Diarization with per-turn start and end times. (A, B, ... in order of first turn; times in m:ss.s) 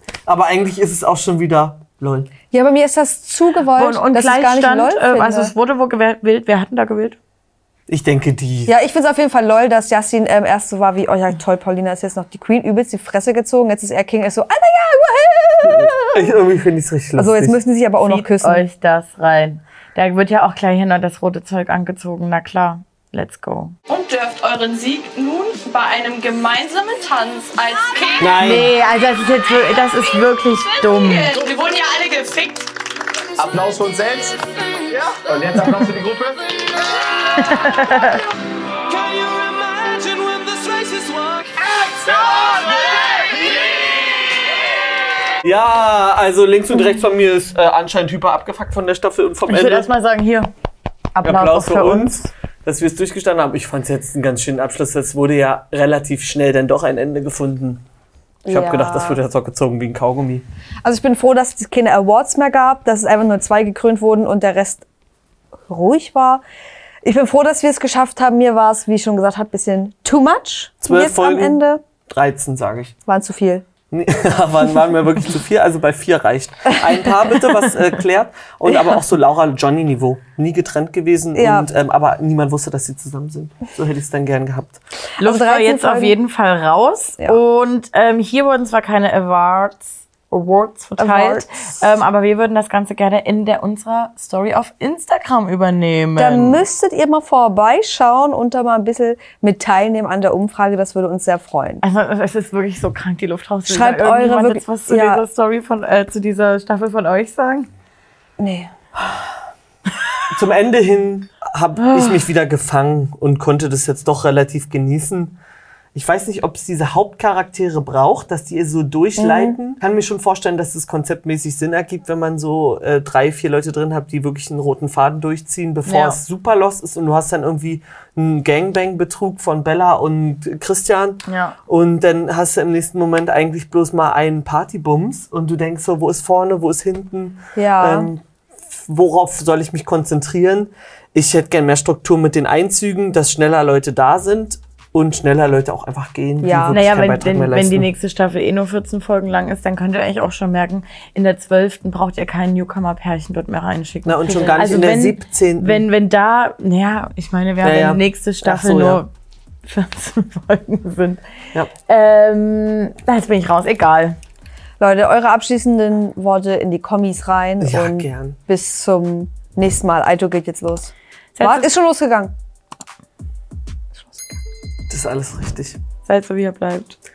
0:00.2-0:02.3 A
0:02.5-0:05.5 B
0:03.7-0:07.2 C
0:07.9-0:08.7 A
0:08.6-0:16.2 B
0:15.6-0:17.6 A
0:17.2-0:18.6 B
0:18.0-0:23.7 C
0:23.9-0:28.4 D
0:28.2-0:28.7 A
0:28.4-0:31.3 C
0:30.8-0:32.7 D
0:33.4-0:34.3 E
0:34.9-0:36.8 E
0:37.4-0:38.2 C
0:38.9-0:43.7 E
0:45.4-0:49.9 A
0:49.5-0:50.5 C
0:51.1-0:52.3 C
0:51.2-0:57.8 A
0:58.4-0:59.2 B
0:58.5-1:00.4 A
1:00.8-1:04.8 B
1:05.7-1:06.4 B
1:07.0-1:11.8 B
1:10.8-1:12.9 A
1:13.0-1:13.6 B
1:13.9-1:24.8 A
1:18.7-1:19.0 B
1:21.3-1:21.7 B
1:25.2-1:36.6 C
1:25.2-1:26.2 B
1:31.0-1:31.7 B
1:36.2-1:41.8 B
1:41.8-1:47.7 C
1:43.6-1:45.2 B
1:48.4-1:49.2 B
1:50.3-1:55.4 A
1:51.8-1:52.2 C
1:55.9-2:27.9 A
1:59.2-1:59.6 B
2:05.8-2:06.2 C
2:11.2-2:11.6 C
2:17.6-2:18.1 B
2:26.4-2:26.8 B
2:26.7-2:39.1 C
2:34.0-2:35.8 A
2:37.6-2:39.0 A
2:39.6-2:41.2 C
2:41.8-2:44.2 C
2:44.8-2:52.3 B
2:47.6-2:48.4 A
2:51.3-2:51.7 C
2:53.9-2:54.4 B
2:54.9-2:55.8 A
2:56.0-2:57.0 C